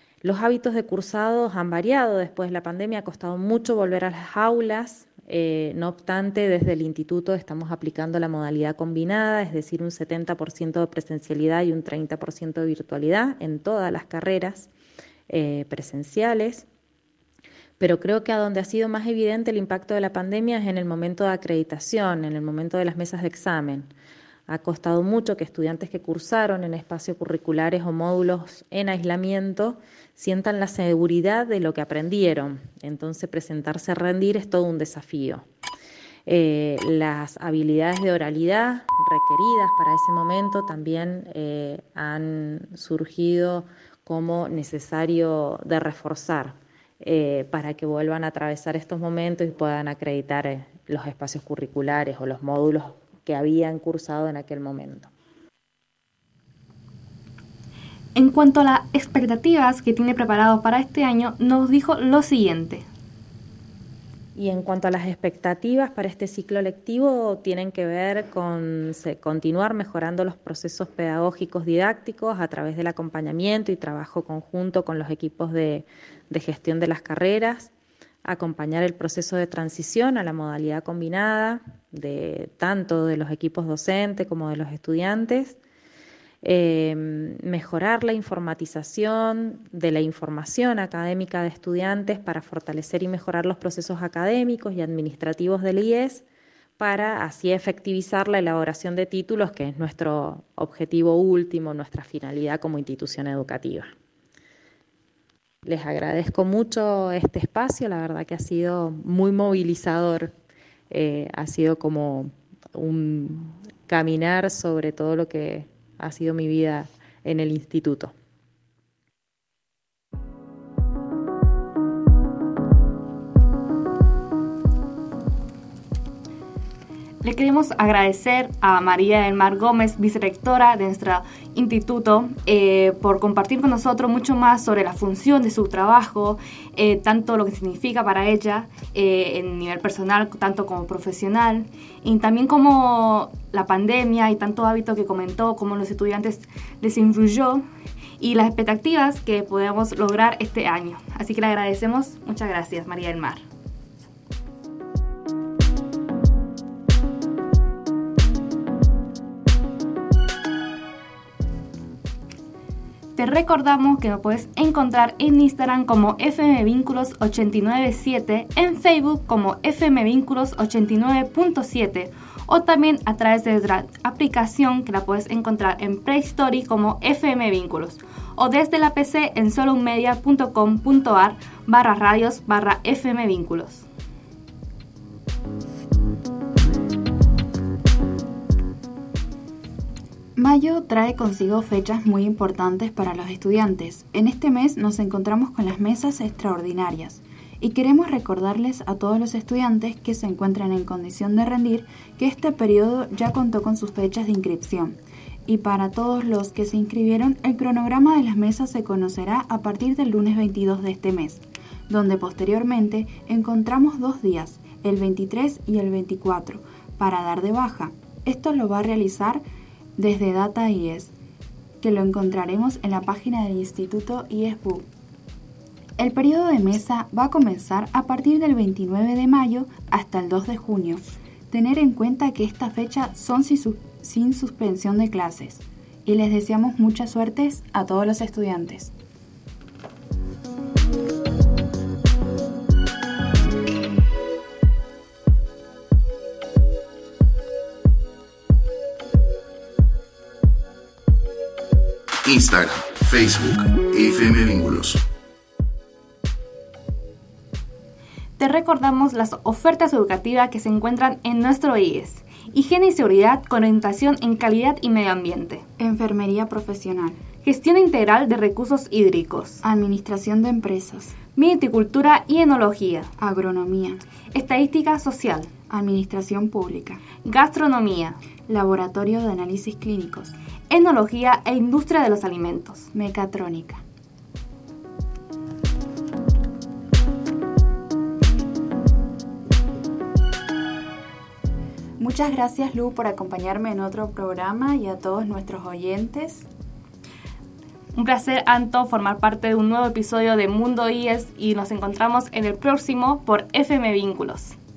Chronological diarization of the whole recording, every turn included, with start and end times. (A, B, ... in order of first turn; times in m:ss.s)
0:00.2-0:14.7 A
0:15.3-0:16.7 A
0:17.8-0:23.9 A
0:24.5-0:35.4 A
0:36.3-0:55.1 A
0:58.1-1:02.9 B
1:04.4-1:17.7 A
1:18.2-1:25.6 A
1:26.4-1:36.2 A
1:36.8-1:43.9 A
1:45.6-1:50.3 A
1:50.9-1:58.1 A
2:07.2-2:27.6 B
2:28.2-2:33.4 B
2:43.2-3:03.9 B
3:10.4-3:39.4 C
3:40.0-3:41.1 C
3:41.8-3:44.9 C
3:46.0-3:58.9 C
4:12.2-4:15.0 D
4:18.4-4:25.6 B
4:25.8-4:27.2 C
4:27.4-4:29.6 B
4:29.6-4:31.2 C
4:31.4-4:33.1 B
4:33.2-4:34.0 C
4:34.3-4:35.5 B
4:35.7-4:37.0 C
4:37.2-4:38.2 B
4:38.5-4:40.4 C
4:40.7-4:42.9 B
4:42.9-4:43.8 C
4:52.0-4:56.5 C
4:57.9-5:04.6 B